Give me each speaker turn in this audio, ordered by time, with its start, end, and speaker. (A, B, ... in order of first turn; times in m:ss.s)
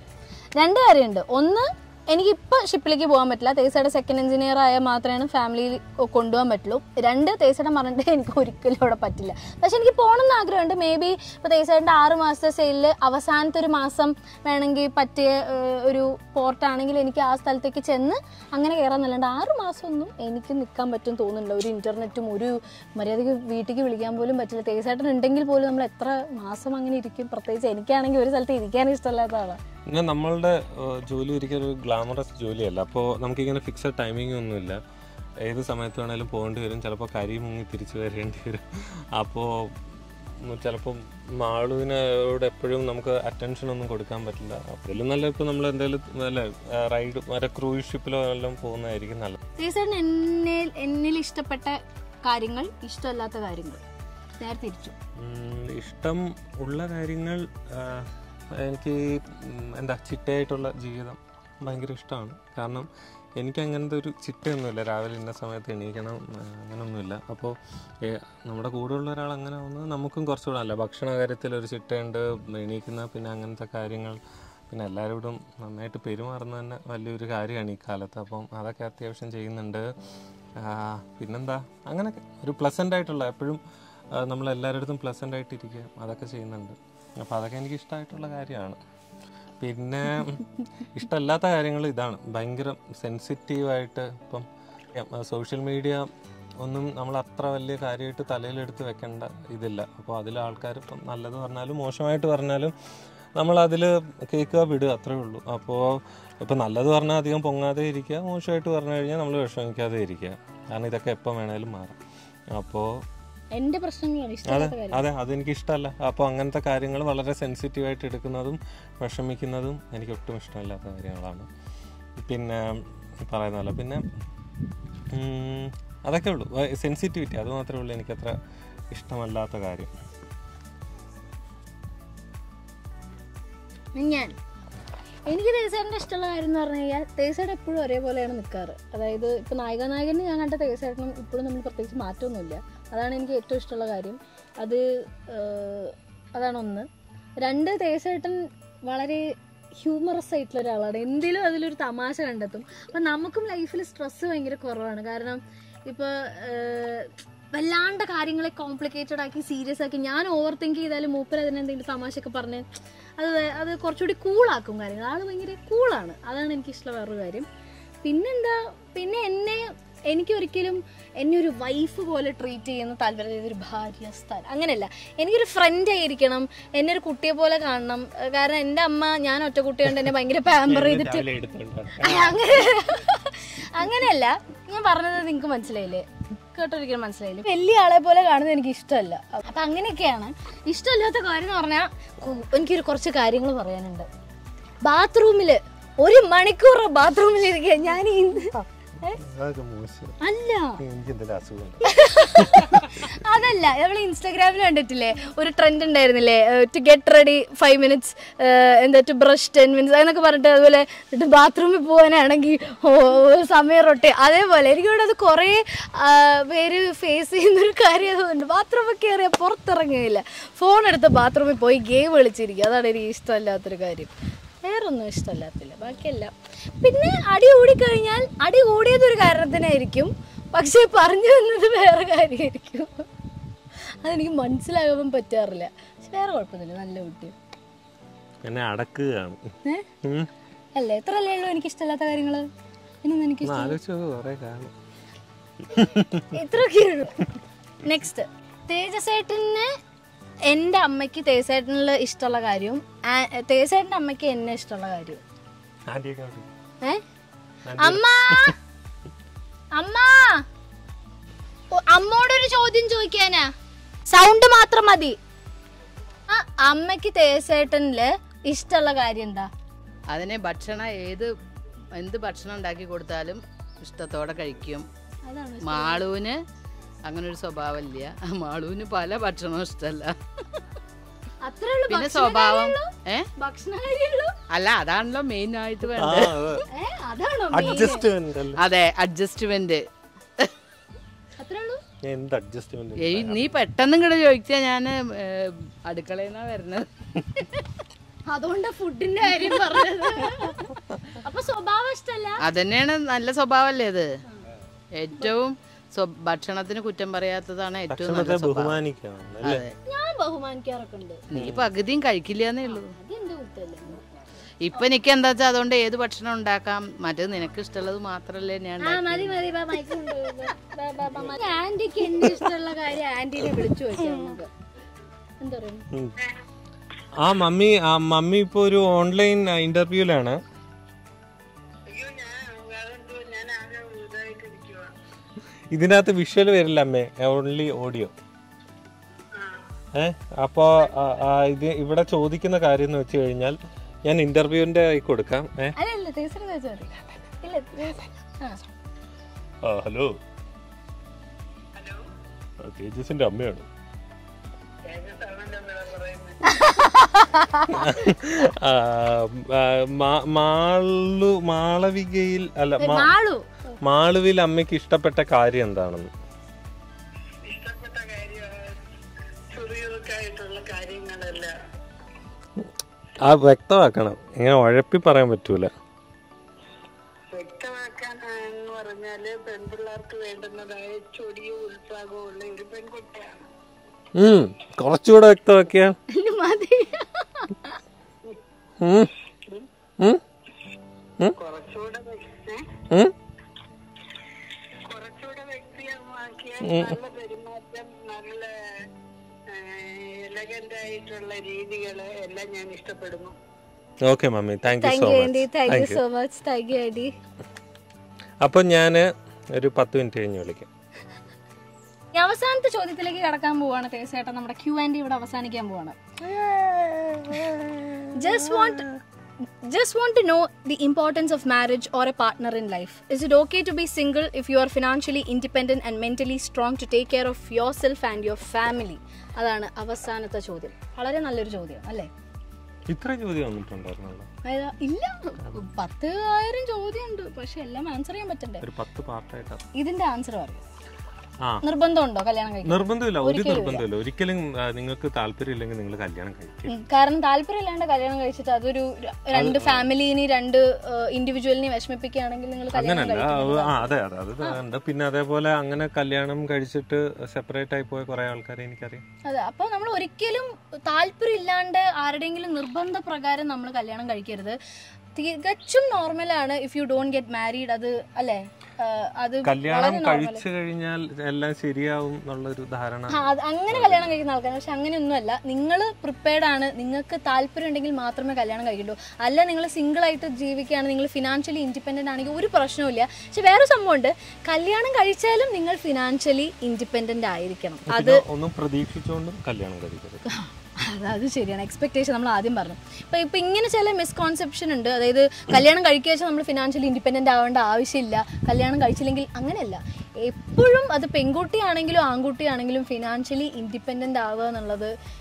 0:00.6-0:29.6 A
0:29.9-0:34.8 B
0:35.4-0:39.8 B
0:40.4-0:49.4 B
0:49.6-0:53.8 A
0:54.4-0:54.9 A
0:55.2-1:19.9 B
1:20.6-1:23.6 B
1:24.1-1:28.8 B
1:29.6-1:36.1 B
1:36.6-1:42.7 B
1:43.4-1:52.0 B
1:52.5-1:53.0 B
1:53.5-1:55.0 A
1:54.4-2:01.5 B
2:02.2-2:04.0 B
2:05.1-2:08.4 B
2:08.9-2:09.9 B
2:14.0-2:14.3 A
2:15.3-2:26.9 A
2:27.4-2:42.6 A
2:43.2-2:47.5 A
2:48.0-3:01.3 A
3:00.7-3:02.4 B
3:02.0-3:14.1 A
3:14.8-3:19.2 A
3:19.1-3:20.2 B
3:20.2-3:20.8 A
3:20.8-3:22.7 B
3:21.8-3:44.1 A
3:44.6-3:53.1 A
3:54.0-3:57.4 A
3:58.4-4:00.3 B
4:00.8-4:02.5 A
4:03.0-4:03.8 A
4:03.4-4:04.7 B
4:05.7-4:06.2 B
4:05.8-4:07.3 A
4:07.8-4:09.7 A
4:10.5-4:15.2 A
4:15.9-4:16.5 B
4:17.6-4:18.5 B
4:17.8-4:18.6 A
4:19.7-4:20.4 A
4:21.7-4:23.5 A
4:24.1-4:25.2 A
4:26.3-4:29.5 A
4:30.1-4:31.3 C
4:32.0-4:34.8 C
4:35.2-4:36.1 A
4:35.6-4:36.4 C
4:37.0-4:40.1 C
4:41.4-4:44.4 A
4:41.9-4:43.3 C
4:44.5-4:46.4 C
4:45.9-4:46.7 B
4:46.7-4:48.0 A
4:47.5-4:48.6 B
4:48.6-4:49.8 C
4:51.4-4:51.8 A
4:52.0-4:53.5 B
4:53.0-4:56.9 C
4:58.3-5:02.4 A
5:02.4-5:04.2 C
5:04.9-5:08.8 C
5:07.9-5:09.6 B
5:09.4-5:09.7 C
5:09.8-5:11.3 A
5:11.3-5:12.9 C
5:11.3-5:11.7 B
5:12.7-5:14.1 A
5:14.6-5:19.4 C
5:18.8-5:24.5 A
5:25.4-5:25.8 A
5:27.1-5:30.4 B
5:31.9-5:34.9 D
5:35.7-5:38.1 B
5:39.3-5:39.6 D
5:39.9-5:45.8 B
5:45.8-5:48.6 A
5:49.6-5:50.2 B
5:51.8-5:52.0 D
5:52.6-5:53.7 B
5:54.8-5:56.8 D
5:56.4-5:57.9 A
5:57.7-6:03.1 B
6:02.8-6:03.4 A
6:03.8-6:06.1 B
6:07.4-6:08.8 D
6:09.5-6:11.5 D
6:13.2-6:15.7 B
6:17.3-6:23.4 D
6:24.1-6:26.0 B
6:26.1-6:27.8 A
6:28.8-6:29.1 B
6:31.3-6:32.7 D
6:34.8-6:38.5 D
6:36.6-6:37.0 B
6:39.5-6:43.4 D
6:44.0-6:46.0 B
6:44.7-6:47.1 A
6:48.4-6:50.7 B
6:52.1-6:56.2 A
6:57.1-6:57.6 B
6:58.1-7:12.1 A
7:12.9-7:14.3 B
7:14.4-7:18.6 A
7:18.6-7:19.6 B
7:19.7-7:20.6 A
7:21.6-7:23.8 A
7:22.6-7:26.8 B
7:26.7-7:34.6 A
7:29.3-7:29.9 B
7:32.7-7:39.0 B
7:39.2-7:44.6 A
7:45.1-7:50.4 A
7:49.4-7:54.1 B
7:53.1-8:08.2 A
8:07.9-8:10.2 B
8:10.3-8:24.9 A